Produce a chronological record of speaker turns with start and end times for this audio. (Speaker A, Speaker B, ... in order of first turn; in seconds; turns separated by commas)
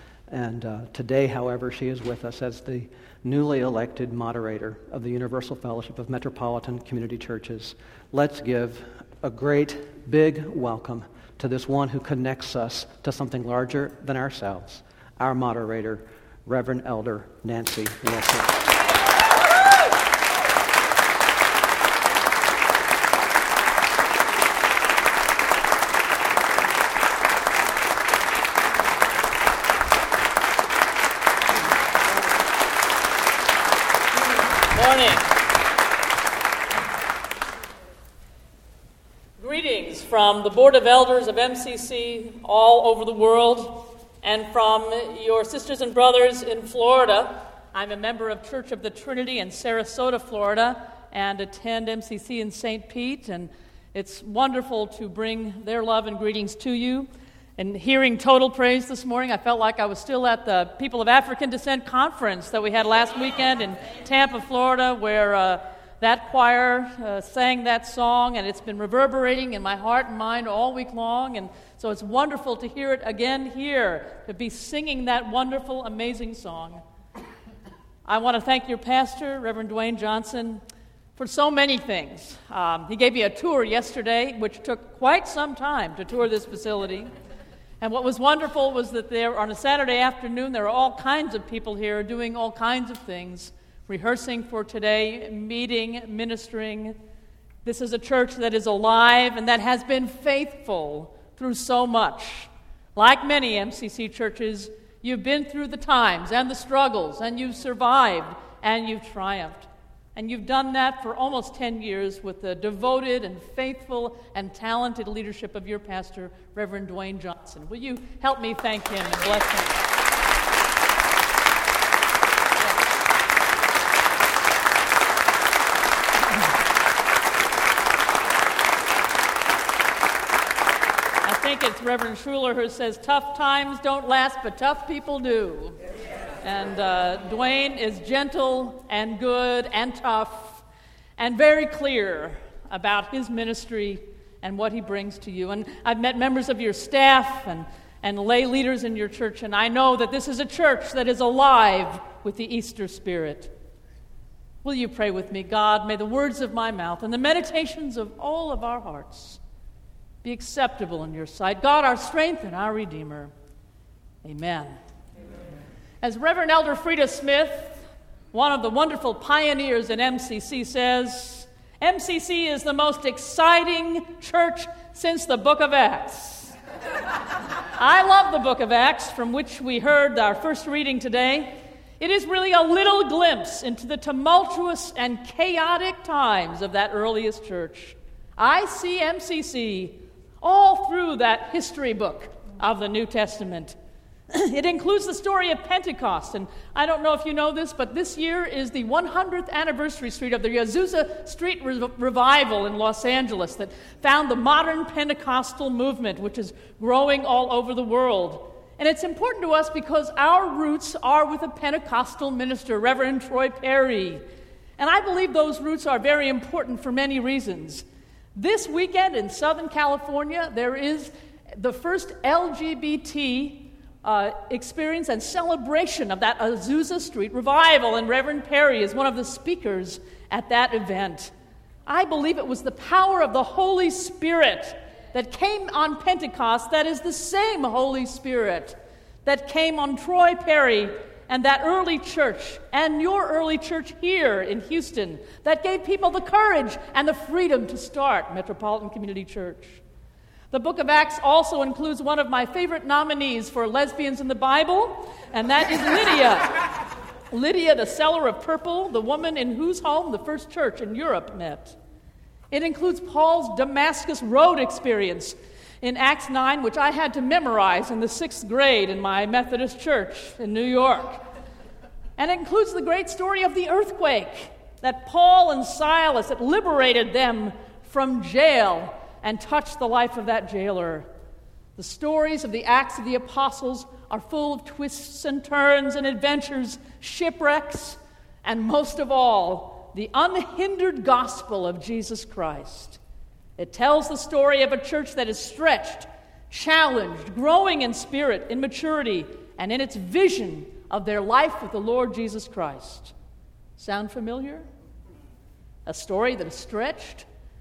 Speaker A: 0.3-18.5, Speaker B: 34.7-35.2, Speaker B: 39.4-40.6, Speaker A: 39.6-41.8, Speaker B: 41.2-76.8, Speaker A: 42.7-43.3, Speaker A: 45.3-47.2, Speaker A: 51.4-52.5, Speaker A: 62.5-63.6, Speaker A: 76.1-76.4, Speaker B: 78.1-80.6, Speaker A: 78.2-79.1, Speaker A: 79.9-80.3, Speaker B: 81.2-86.2, Speaker A: 85.2-85.6, Speaker A: 86.2-87.0, Speaker B: 87.8-97.0, Speaker B: 97.6-119.8, Speaker A: 107.6-108.1, Speaker B: 131.2-135.7, Speaker A: 131.3-133.8, Speaker A: 134.9-135.6, Speaker B: 136.4-140.6, Speaker A: 136.5-137.8, Speaker B: 141.2-153.5, Speaker B: 154.6-159.4, Speaker B: 160.2-163.3, Speaker A: 162.7-163.1, Speaker B: 164.2-164.6, Speaker B: 166.0-176.5, Speaker B: 177.8-193.8, Speaker A: 178.4-179.0, Speaker A: 182.2-182.6, Speaker B: 194.3-214.2, Speaker B: 214.8-217.8, Speaker B: 218.3-231.3, Speaker B: 231.9-249.8, Speaker B: 250.5-256.4, Speaker A: 254.4-254.8, Speaker A: 255.4-256.4, Speaker B: 257.3-261.8, Speaker A: 257.6-259.8, Speaker A: 260.8-261.5, Speaker A: 262.5-263.0, Speaker B: 262.5-271.1, Speaker A: 264.0-264.4, Speaker A: 266.8-269.0, Speaker A: 270.4-271.1, Speaker B: 272.2-281.1, Speaker B: 281.8-293.0, Speaker B: 293.6-303.1, Speaker B: 303.8-304.6, Speaker A: 304.0-304.3, Speaker B: 305.9-307.2